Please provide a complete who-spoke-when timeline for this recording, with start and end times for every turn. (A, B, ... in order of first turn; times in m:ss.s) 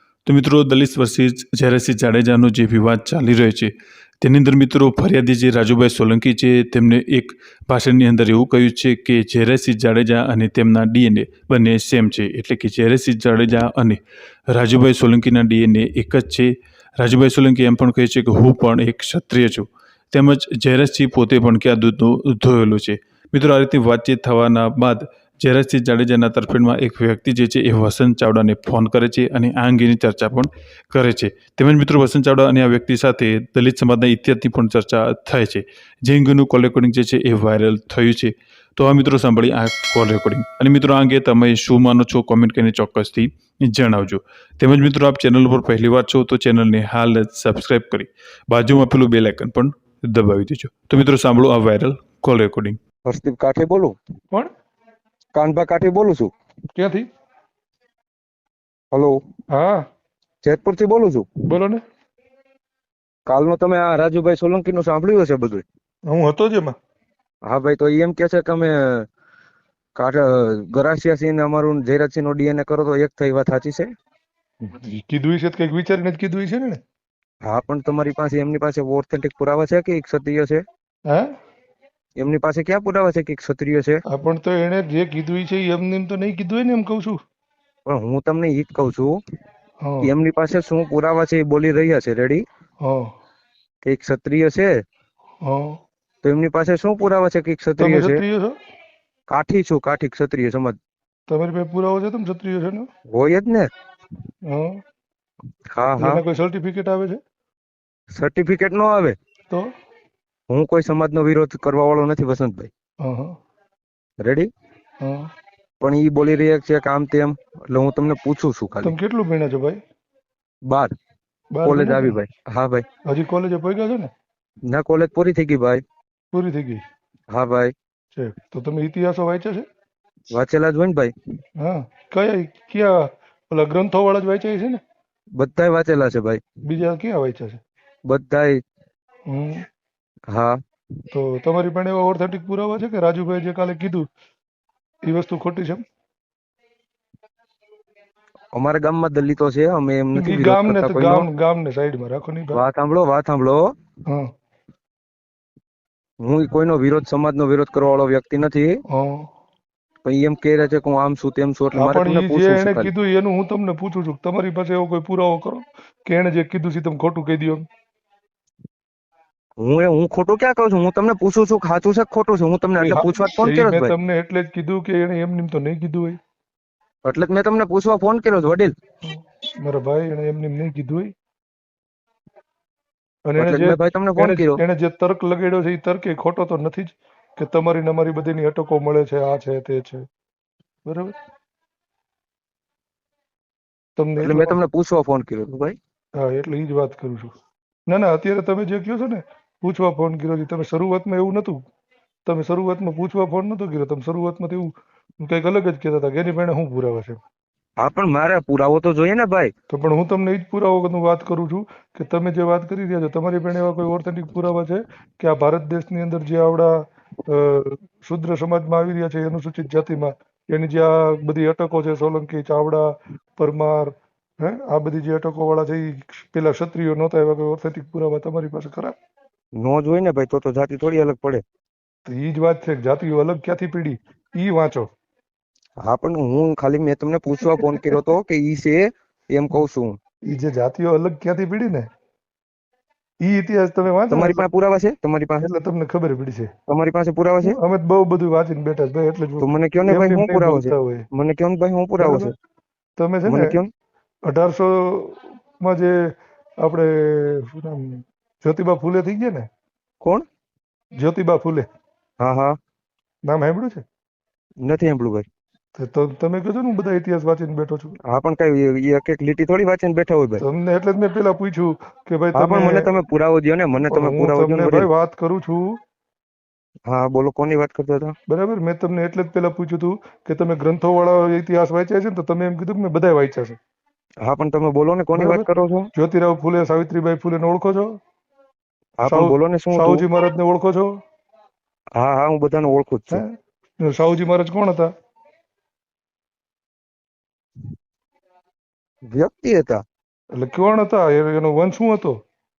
0:00.2-0:14.0 A
0:14.5-0:52.8 A
0:53.0-0:54.0 B
0:55.3-0:56.3 B
0:56.7-0:57.1 C
0:58.9-0:59.2 B
0:59.5-0:59.8 C
1:00.4-1:01.3 B
1:01.4-1:01.8 C
1:03.2-1:05.6 B
1:06.0-1:06.8 C
1:07.4-1:09.0 B
1:09.9-1:13.9 B
1:14.6-1:16.8 C
1:17.4-1:20.6 B
1:22.2-1:24.0 B
1:24.1-1:27.2 C
1:27.8-1:29.2 B
1:29.8-1:30.1 C
1:30.0-1:32.4 B
1:32.8-1:33.1 C
1:33.8-1:34.8 B
1:35.4-1:35.8 C
1:36.2-1:38.2 B
1:37.8-1:38.5 C
1:39.3-1:40.8 B
1:41.3-1:42.9 C
1:43.1-1:43.7 B
1:44.4-1:44.8 C
1:45.7-1:46.2 B
1:46.0-1:47.2 C
1:48.1-1:49.2 B
1:50.5-1:52.7 B
1:53.0-1:53.3 C
1:54.2-1:54.5 B
1:55.0-1:55.3 C
1:55.8-1:58.9 B
1:58.8-1:59.8 C
2:00.6-2:00.9 B
2:01.5-2:02.2 C
2:01.6-2:02.8 B
2:03.0-2:04.1 C
2:04.7-2:05.8 B
2:06.3-2:06.8 C
2:07.3-2:07.7 B
2:08.1-2:09.6 C
2:10.3-2:11.1 B
2:11.6-2:14.8 C
2:15.4-2:16.4 B
2:16.6-2:17.6 C
2:18.1-2:18.6 B
2:19.3-2:19.6 C
2:20.3-2:20.6 B
2:21.1-2:24.1 C
2:25.1-2:25.8 C
2:28.5-2:31.3 B
2:30.1-2:32.6 C
2:32.5-2:33.7 B
2:36.2-2:38.8 B
2:38.9-2:39.3 C
2:40.0-2:42.9 B
2:41.7-2:47.6 C
2:49.6-2:53.9 B
2:52.8-2:56.2 C
2:57.0-2:58.7 B
2:59.0-3:01.1 C
3:03.2-3:10.0 C
3:03.4-3:04.6 B
3:10.8-3:11.1 C
3:14.0-3:14.6 C
3:14.2-3:15.8 B
3:16.2-3:17.3 C
3:17.9-3:21.6 C
3:22.2-3:27.2 C
3:27.8-3:29.5 B
3:29.7-3:36.7 C
3:37.3-3:48.9 C
3:49.6-3:51.4 B
3:52.0-3:54.9 C
3:55.8-4:00.0 B
4:00.2-4:01.9 C
4:03.2-4:04.4 C
4:04.1-4:05.5 B
4:05.4-4:06.5 C
4:06.7-4:07.6 B
4:07.4-4:11.0 C
4:09.4-4:12.3 B
4:12.0-4:12.3 C
4:13.0-4:13.6 C
4:13.2-4:13.7 B
4:14.2-4:16.0 C
4:16.6-4:19.5 C
4:21.0-4:21.6 C
4:22.2-4:22.6 B
4:23.2-4:23.8 C
4:24.6-4:25.2 B
4:25.8-4:28.0 C
4:28.1-4:30.4 B
4:30.4-4:32.9 C
4:32.3-4:34.9 B
4:33.8-4:35.7 C
4:36.9-4:38.1 B
4:38.3-4:43.6 C
4:44.2-4:45.9 B
4:45.1-4:47.9 C
4:49.0-4:50.0 B
4:49.1-4:50.9 C
4:52.0-4:53.2 B
4:53.1-4:54.9 C
4:59.1-4:59.8 B
5:00.3-5:02.2 C